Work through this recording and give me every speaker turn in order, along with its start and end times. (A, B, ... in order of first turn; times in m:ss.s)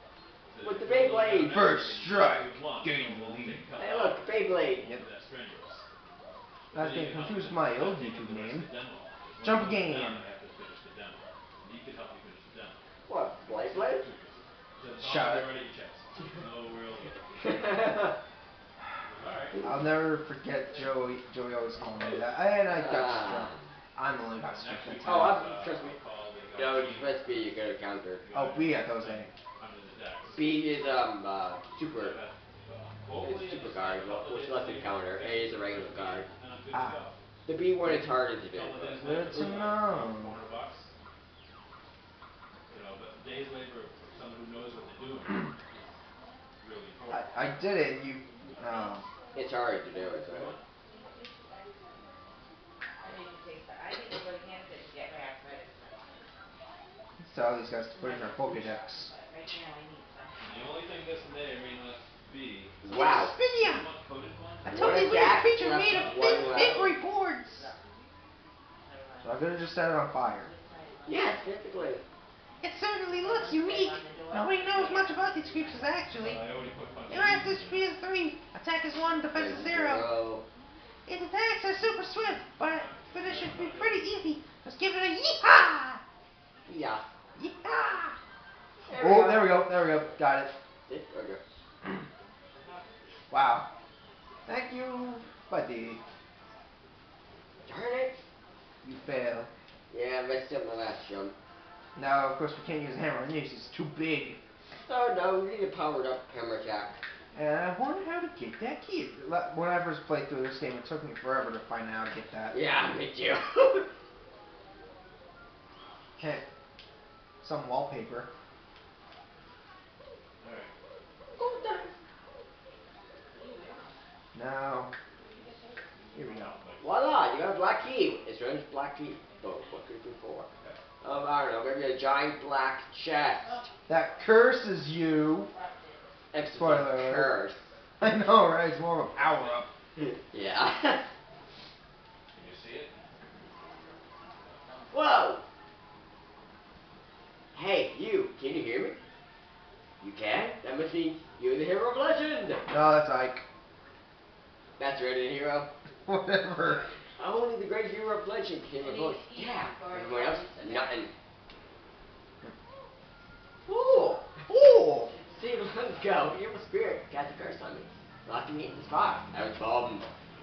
0:00.5-0:05.8 A
0:00.6-0:01.6 B
0:01.5-0:03.7 C
0:03.8-0:04.9 B
0:06.7-0:08.7 C
0:06.7-0:12.9 A
0:09.4-0:10.2 C
0:13.1-0:14.0 B
0:13.5-0:18.1 A
0:15.0-0:15.5 C
0:17.4-0:18.2 B
0:19.1-0:19.6 A
0:19.6-0:25.4 C
0:22.7-0:23.6 B
0:24.4-0:27.5 A
0:25.0-0:26.0 B
0:26.6-0:28.2 B
0:28.2-0:30.6 A
0:28.3-0:29.3 C
0:30.3-0:32.2 B
0:31.9-0:37.2 A
0:33.2-0:36.3 B
0:36.7-0:37.0 C
0:37.5-0:39.0 B
0:38.5-0:40.9 A
0:39.0-0:40.4 C
0:42.7-0:46.0 A
0:46.6-0:47.7 A
0:47.1-0:49.1 C
0:48.5-0:50.0 D
0:49.4-0:50.5 B
0:50.2-0:50.6 A
0:50.8-0:52.2 D
0:53.0-0:56.3 D
0:57.2-0:59.1 C
0:58.0-1:00.8 D
1:00.4-1:02.8 A
1:02.8-1:03.3 B
1:02.9-1:03.8 C
1:03.5-1:06.7 A
1:04.6-1:07.7 C
1:04.7-1:06.9 B
1:06.4-1:07.9 D
1:08.8-1:12.0 D
1:09.2-1:10.5 C
1:11.1-1:12.0 B
1:12.6-1:16.4 C
1:13.1-1:16.0 D
1:16.2-1:17.9 A
1:17.1-1:20.1 C
1:19.3-1:20.4 B
1:21.1-1:26.0 C
1:22.6-1:24.0 A
1:26.7-1:27.0 B
1:27.4-1:28.2 C
1:28.9-1:29.7 B
1:28.9-1:30.5 C
1:30.9-1:31.4 B
1:33.3-1:33.7 C
1:34.5-1:36.0 C
1:37.6-1:38.2 B
1:38.8-1:39.5 C
1:39.9-1:41.4 B
1:42.0-1:44.4 C
1:44.8-1:47.0 B
1:47.3-1:52.6 C
1:52.5-1:53.9 B
1:56.2-1:56.4 C
1:57.4-1:58.3 C
2:00.4-2:00.7 A
2:01.4-2:01.9 B
2:03.3-2:04.0 D
2:04.3-2:04.9 C
2:05.2-2:06.1 D
2:06.1-2:07.2 A
2:06.1-2:06.6 C
2:06.8-2:10.5 B
2:11.0-2:13.7 B
2:13.4-2:13.7 D
2:13.9-2:15.5 C
2:14.9-2:16.2 D
2:16.3-2:17.6 B
2:16.5-2:17.3 C
2:18.0-2:19.7 C
2:19.2-2:19.6 A
2:20.0-2:21.0 B
2:22.3-2:23.1 A
2:24.6-2:25.0 D
2:24.9-2:25.4 B
2:27.5-2:29.0 B
2:30.0-2:32.7 B
2:32.7-2:33.4 C
2:34.8-2:35.7 B
2:36.1-2:36.8 C
2:37.2-2:41.1 B
2:38.8-2:41.1 D
2:43.7-2:44.3 B
2:44.5-2:45.1 C
2:45.0-2:46.4 D
2:45.3-2:50.1 B